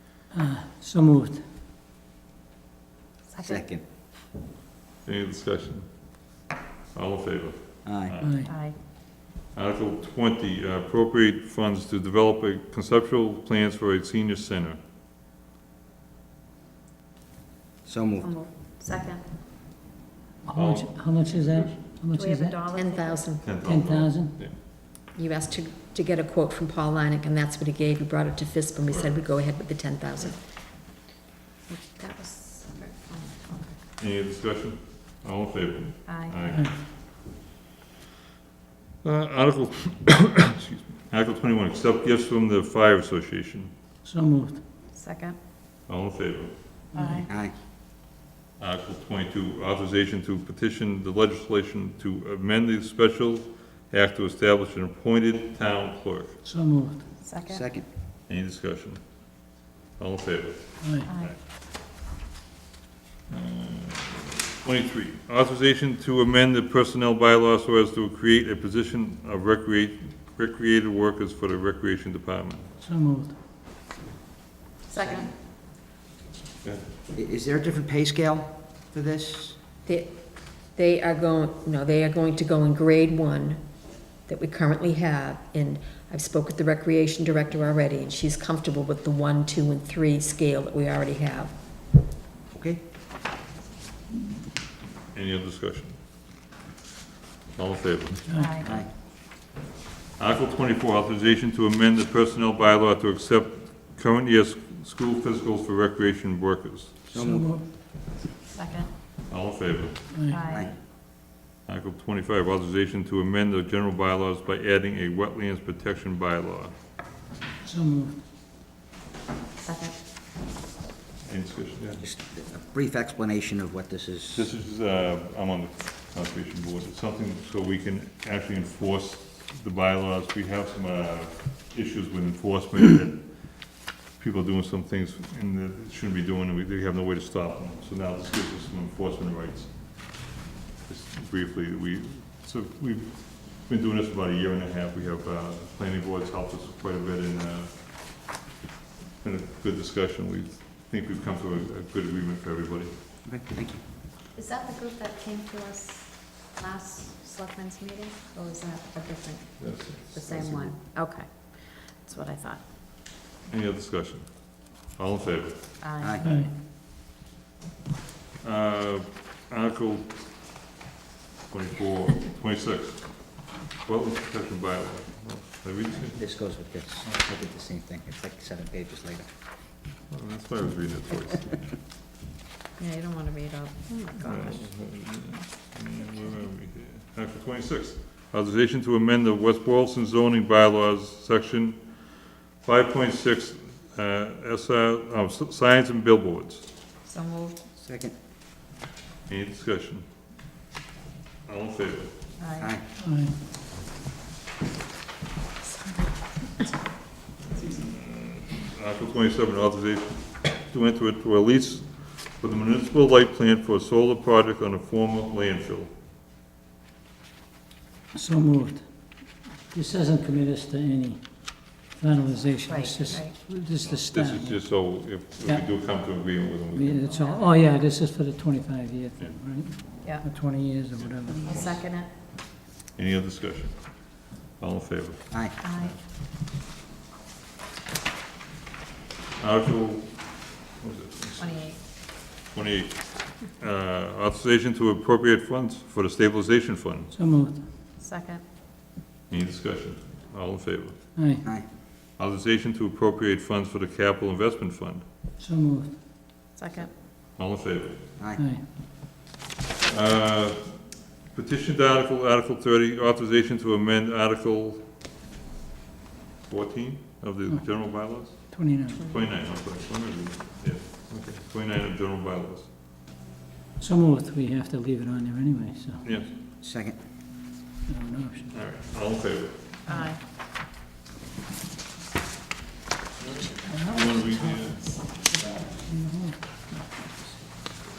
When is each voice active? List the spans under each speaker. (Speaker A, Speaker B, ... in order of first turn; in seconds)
Speaker A: 0.3-1.5, 8.2-8.5, 20.5-22.6, 23.6-24.5, 36.5-36.8, 44.0-44.6, 46.9-47.3, 56.4-57.1, 60.8-61.1, 72.8-73.4, 98.3-98.6, 107.1-107.6, 110.1-110.4, 117.6-118.2, 166.2-166.5, 203.0-203.3, 218.1-225.8, 226.7-231.6, 247.1-247.6, 251.2-251.4, 255.4-255.9, 258.4-258.6, 267.5-269.1, 273.8-276.1, 277.9-278.6, 283.7-286.9
Speaker B: 3.3-3.7, 8.5-8.8, 18.2-19.2, 22.1-23.3, 31.7-33.8, 36.1-36.4, 44.9-45.4, 47.0-47.3, 57.2-57.7, 61.1-61.4, 74.9-75.3, 98.4-98.7, 108.5-108.9, 110.3-110.7, 119.6-120.0, 154.3-162.6, 165.8-166.5, 182.8-184.7, 197.1-197.7, 202.4-202.7, 205.6-206.8, 222.7-223.4, 227.1-227.6, 231.3-232.1, 235.6-236.0, 241.4-241.8, 248.0-248.4, 256.6-256.9, 279.9-280.2
Speaker C: 3.4-3.9, 7.8-8.2, 17.9-18.3, 47.3-47.5, 57.5-57.9, 74.9-75.3, 77.1-79.6, 92.5-92.8, 98.6-98.9, 107.1-107.5, 122.0-124.5, 153.2-153.8, 160.3-160.7, 166.0-166.3, 176.1-179.3, 197.8-198.2, 202.6-202.8, 276.6-277.0
Speaker D: 5.0-6.2, 6.9-8.3, 9.5-14.8, 20.5-21.8, 23.4-24.6, 28.9-29.2, 34.0-36.8, 39.0-43.7, 45.9-46.6, 48.6-56.4, 58.3-59.3, 60.0-61.4, 63.3-72.7, 95.1-96.0, 97.5-98.8, 100.2-107.0, 109.3-110.0, 111.6-116.7, 121.2-122.0, 124.3-140.1, 140.9-147.8, 149.2-152.9, 159.6-160.1, 163.5-165.6, 168.4-170.2, 171.5-176.2, 180.1-181.6, 184.2-192.1, 192.6-196.7, 199.3-200.1, 201.5-202.2, 207.6-215.9, 223.8-227.0, 231.0-231.8, 233.0-236.0, 239.4-247.1, 249.3-251.0, 252.2-255.0, 257.4-258.1, 259.9-264.9, 266.5-272.7, 276.0-276.3, 278.5-279.7, 283.9-285.0
Speaker E: 22.7-23.6, 25.1-30.4, 79.9-91.5